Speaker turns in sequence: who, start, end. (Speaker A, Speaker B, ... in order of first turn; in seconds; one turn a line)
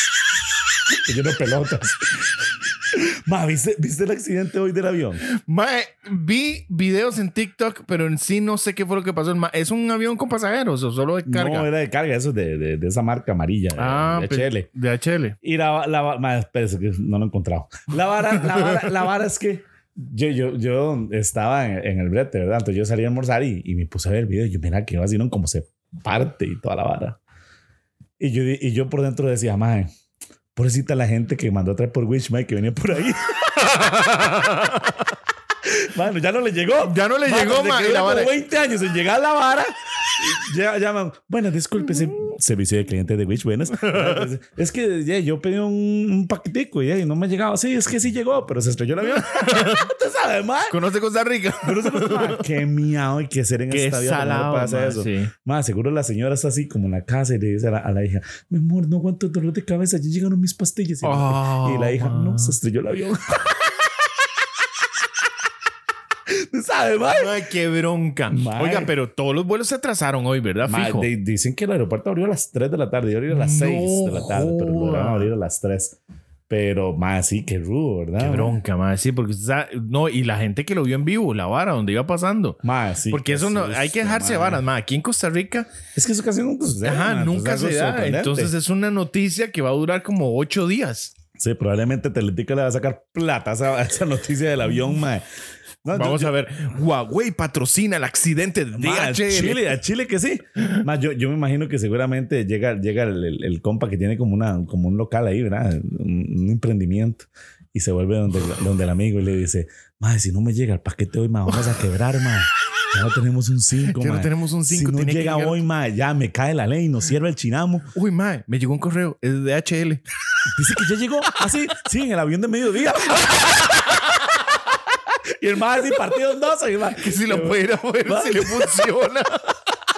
Speaker A: 1.1-5.2
Speaker B: 5.3-11.7
Speaker A: 11.3-14.7
Speaker B: 13.8-15.4
Speaker A: 15.4-27.2
Speaker B: 18.3-19.0
Speaker A: 28.2-29.9
Speaker A: 30.6-33.8
Speaker B: 33.6-35.1
Speaker A: 35.6-50.8
Speaker B: 36.8-38.3
Speaker B: 43.7-44.3
Speaker B: 49.1-49.9
Speaker B: 50.7-52.5
Speaker A: 51.6-63.6
Speaker B: 53.7-55.3
Speaker B: 61.0-62.6
Speaker A: 66.3-67.4
Speaker B: 67.1-71.1
Speaker A: 68.3-68.9
Speaker A: 70.7-76.0
Speaker B: 73.3-75.3
Speaker A: 76.5-78.6
Speaker B: 78.2-82.6
Speaker A: 82.6-84.6
Speaker B: 83.1-85.7
Speaker A: 85.9-88.5
Speaker B: 86.8-91.1
Speaker A: 91.4-95.2
Speaker A: 95.8-96.3
Speaker B: 95.9-99.7
Speaker A: 98.8-117.9
Speaker B: 113.8-115.6
Speaker B: 117.9-120.0
Speaker A: 120.5-123.8
Speaker A: 125.4-128.8
Speaker B: 127.0-129.6